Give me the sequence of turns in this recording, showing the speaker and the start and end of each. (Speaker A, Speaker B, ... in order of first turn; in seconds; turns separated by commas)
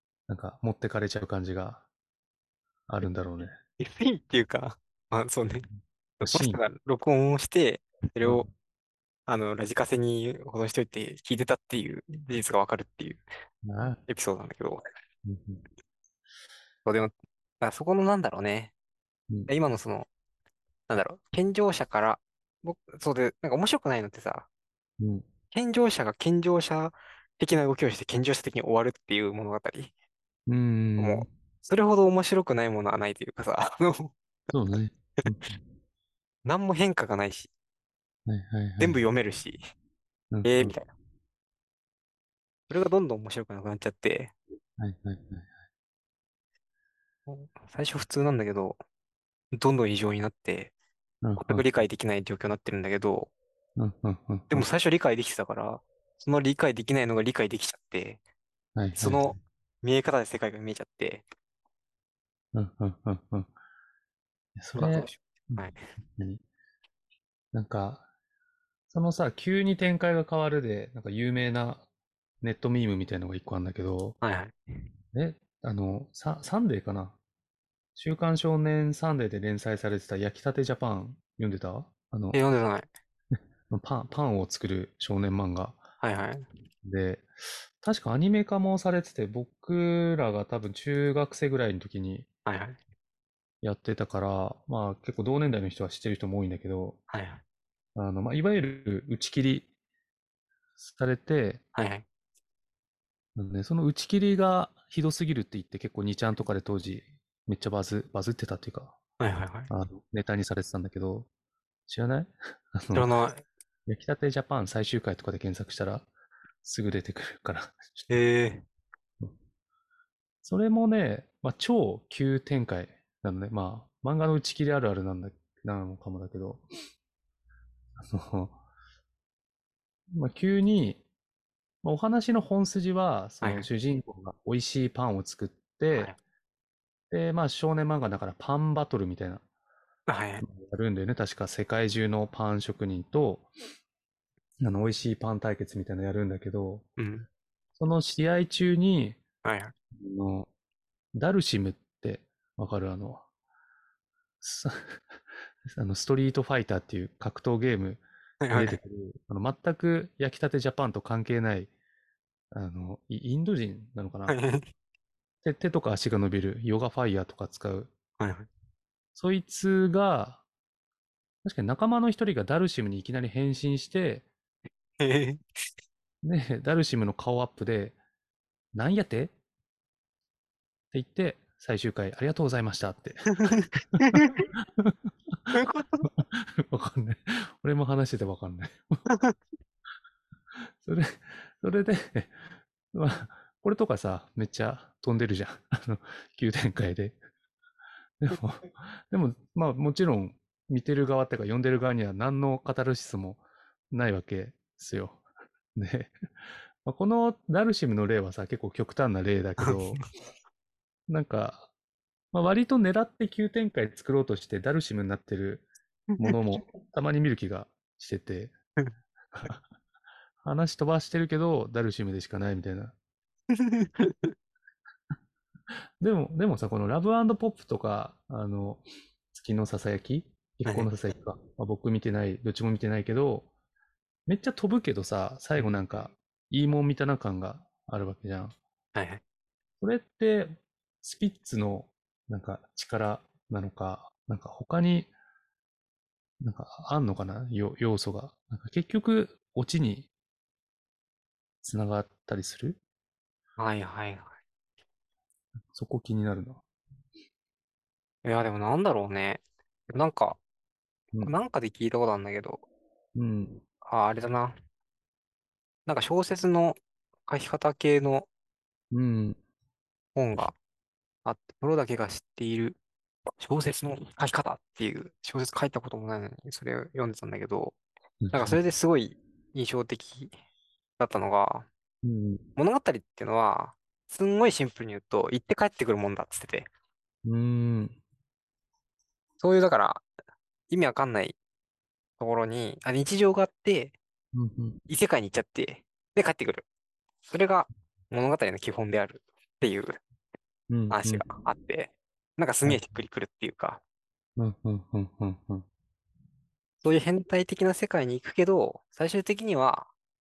Speaker A: 0.3-1.8, Speaker A: 2.9-3.6, Speaker B: 3.8-5.7, Speaker B: 6.2-8.5, Speaker A: 6.2-6.6, Speaker A: 8.2-8.5, Speaker B: 9.3-13.2, Speaker A: 13.6-14.0, Speaker B: 14.1-14.8, Speaker A: 15.2-15.6, Speaker B: 16.8-18.7, Speaker B: 19.5-20.1, Speaker B: 20.9-24.5, Speaker A: 25.0-25.2, Speaker B: 25.5-29.9, Speaker A: 30.5-31.3, Speaker B: 31.0-34.1, Speaker A: 34.5-35.6, Speaker B: 36.5-37.5, Speaker A: 38.2-39.0, Speaker B: 38.8-39.6, Speaker A: 40.3-40.7, Speaker B: 40.4-40.9, Speaker B: 42.7-44.3, Speaker A: 44.8-45.5, Speaker B: 47.3-48.8, Speaker B: 49.5-50.7, Speaker A: 51.2-51.6, Speaker B: 51.4-53.3, Speaker A: 53.8-54.6, Speaker B: 54.5-58.2, Speaker A: 58.8-59.3, Speaker B: 58.9-61.2, Speaker A: 62.5-63.5, Speaker A: 64.5-66.4, Speaker B: 64.7-65.8, Speaker A: 67.5-68.0, Speaker A: 68.9-71.9, Speaker A: 72.4-74.2, Speaker B: 74.2-74.5, Speaker A: 75.1-77.2, Speaker A: 78.0-82.4, Speaker B: 82.3-82.9, Speaker A: 83.7-85.8, Speaker B: 86.0-86.5, Speaker A: 86.8-92.2, Speaker B: 92.5-92.8, Speaker A: 93.6-97.0, Speaker B: 97.1-97.4, Speaker A: 98.0-99.7, Speaker A: 100.8-101.6, Speaker B: 101.7-102.0, Speaker A: 103.3-109.0, Speaker B: 109.2-109.7, Speaker A: 109.7-111.3, Speaker A: 111.9-113.1, Speaker B: 112.9-113.4, Speaker A: 113.9-116.1, Speaker A: 116.6-118.2, Speaker B: 118.1-118.6, Speaker A: 120.4-126.7, Speaker A: 128.0-128.6, Speaker A: 130.1-131.0, Speaker A: 131.8-136.1, Speaker B: 133.4-133.7, Speaker B: 135.9-136.2, Speaker A: 137.1-139.4, Speaker B: 140.1-140.4, Speaker A: 140.4-143.5, Speaker A: 144.6-146.8, Speaker B: 147.0-147.3, Speaker A: 147.8-149.2, Speaker B: 149.4-149.7, Speaker A: 149.9-150.5, Speaker A: 151.1-153.2, Speaker A: 154.4-161.7, Speaker B: 158.4-158.8, Speaker A: 162.5-164.4, Speaker B: 164.3-164.7, Speaker A: 165.4-167.9, Speaker B: 168.2-168.5, Speaker A: 169.2-170.4, Speaker A: 171.4-174.2, Speaker B: 175.0-175.6, Speaker A: 176.2-178.0, Speaker A: 178.7-179.3, Speaker A: 180.9-183.2, Speaker B: 183.4-184.5, Speaker A: 184.1-189.0, Speaker B: 185.5-186.1, Speaker B: 189.1-189.4, Speaker A: 190.6-197.2, Speaker A: 198.2-205.2, Speaker A: 205.7-206.2, Speaker A: 206.8-210.0, Speaker B: 209.6-210.0, Speaker A: 211.1-211.7, Speaker A: 212.3-215.7, Speaker A: 216.2-218.5, Speaker A: 219.3-219.6, Speaker A: 220.4-222.9, Speaker B: 223.5-224.3, Speaker A: 226.0-233.5, Speaker B: 230.6-230.9, Speaker A: 234.3-238.6, Speaker B: 235.5-235.8, Speaker B: 238.9-239.2, Speaker A: 239.8-245.1, Speaker A: 246.4-250.1, Speaker A: 251.6-252.8, Speaker B: 253.6-254.3, Speaker A: 255.7-256.6, Speaker B: 258.2-260.4, Speaker B: 261.2-262.6, Speaker A: 263.1-263.6, Speaker B: 263.8-264.5, Speaker B: 265.9-268.3, Speaker A: 268.9-269.4, Speaker B: 270.1-270.6, Speaker B: 271.2-272.8, Speaker B: 273.4-277.8, Speaker A: 278.2-278.6, Speaker B: 278.3-280.3, Speaker B: 281.0-281.7, Speaker A: 282.0-282.4, Speaker B: 282.6-286.7, Speaker A: 287.2-288.0, Speaker B: 289.4-290.1, Speaker B: 290.7-291.4, Speaker B: 292.2-293.9, Speaker A: 294.3-294.8, Speaker B: 294.9-296.6, Speaker B: 297.3-300.0, Speaker A: 300.7-301.2, Speaker B: 300.9-303.8, Speaker A: 304.4-305.6, Speaker B: 306.8-309.9